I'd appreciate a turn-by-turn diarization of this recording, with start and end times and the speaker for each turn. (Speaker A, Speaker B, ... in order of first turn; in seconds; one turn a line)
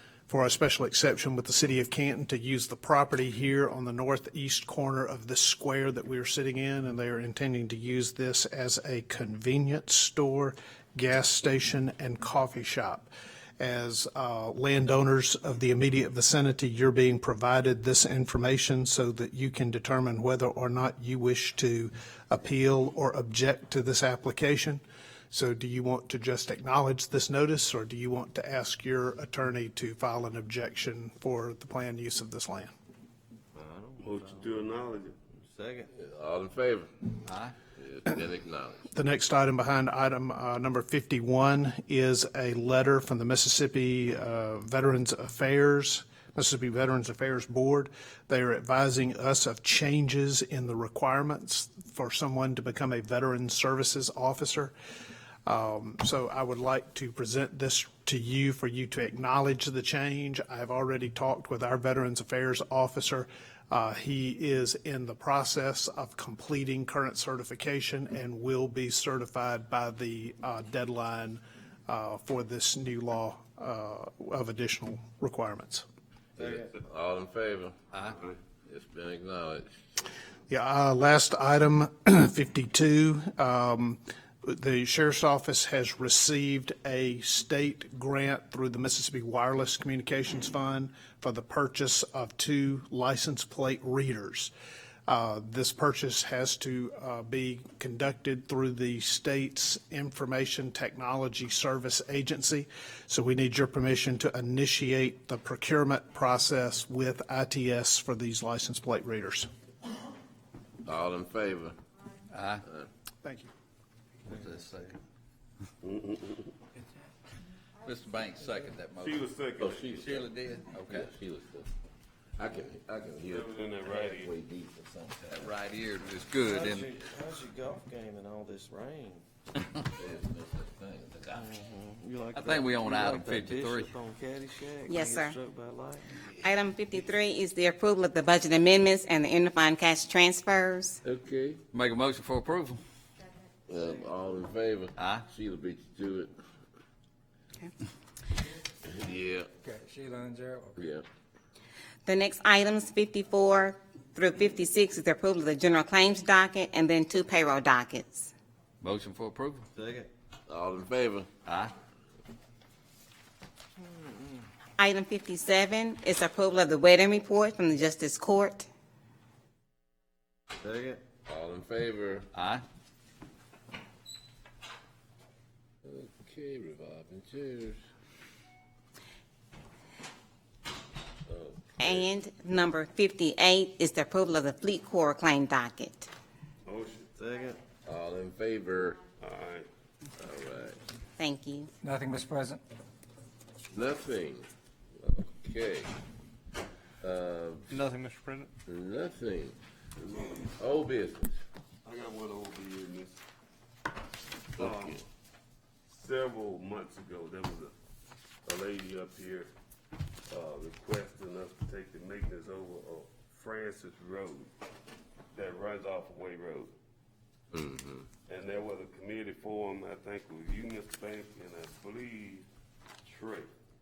Speaker A: 0.3-32.7
Speaker B: 33.5-34.7
Speaker C: 34.0-35.1
Speaker B: 35.4-35.9
Speaker D: 35.9-36.9
Speaker E: 37.3-37.5
Speaker D: 37.7-38.9
Speaker A: 38.9-54.7
Speaker A: 55.5-75.9
Speaker D: 76.4-79.8
Speaker B: 76.4-76.7
Speaker A: 80.5-94.5
Speaker A: 95.1-109.5
Speaker D: 110.9-111.8
Speaker E: 112.3-112.6
Speaker A: 113.2-113.5
Speaker E: 114.3-115.0
Speaker C: 115.8-116.5
Speaker E: 117.8-119.2
Speaker C: 119.0-120.1
Speaker D: 119.6-121.7
Speaker E: 120.0-121.1
Speaker D: 122.4-125.5
Speaker C: 123.3-124.3
Speaker E: 125.3-126.9
Speaker B: 126.4-129.2
Speaker D: 129.9-131.5
Speaker B: 131.3-136.0
Speaker E: 132.3-133.9
Speaker F: 134.9-135.4
Speaker F: 136.4-141.0
Speaker D: 141.0-141.6
Speaker E: 141.7-142.8
Speaker D: 143.7-146.3
Speaker E: 145.0-145.2
Speaker D: 148.8-149.5
Speaker G: 149.6-150.9
Speaker D: 150.8-151.0
Speaker F: 152.1-158.3
Speaker E: 158.8-159.7
Speaker B: 159.7-160.1
Speaker D: 160.5-161.3
Speaker E: 161.4-161.7
Speaker B: 163.8-164.5
Speaker F: 164.8-168.7
Speaker B: 170.6-171.0
Speaker D: 171.2-172.3
Speaker E: 172.3-172.6
Speaker D: 175.8-177.8
Speaker D: 181.3-182.1
Speaker F: 181.8-186.1
Speaker C: 186.7-187.1
Speaker B: 187.2-187.6
Speaker D: 187.8-189.0
Speaker C: 189.2-189.7
Speaker D: 190.2-190.8
Speaker F: 191.2-191.7
Speaker G: 191.8-192.6
Speaker D: 193.7-194.5
Speaker D: 195.0-195.9
Speaker D: 197.0-197.9
Speaker D: 198.7-199.6
Speaker C: 200.0-200.5
Speaker D: 200.5-201.4
Speaker C: 201.8-203.2
Speaker D: 204.6-205.0
Speaker C: 204.6-205.0
Speaker C: 205.9-207.7
Speaker C: 208.4-209.5
Speaker C: 210.3-214.5
Speaker C: 215.3-216.7
Speaker D: 217.5-218.1
Speaker C: 218.3-222.5
Speaker C: 223.0-223.5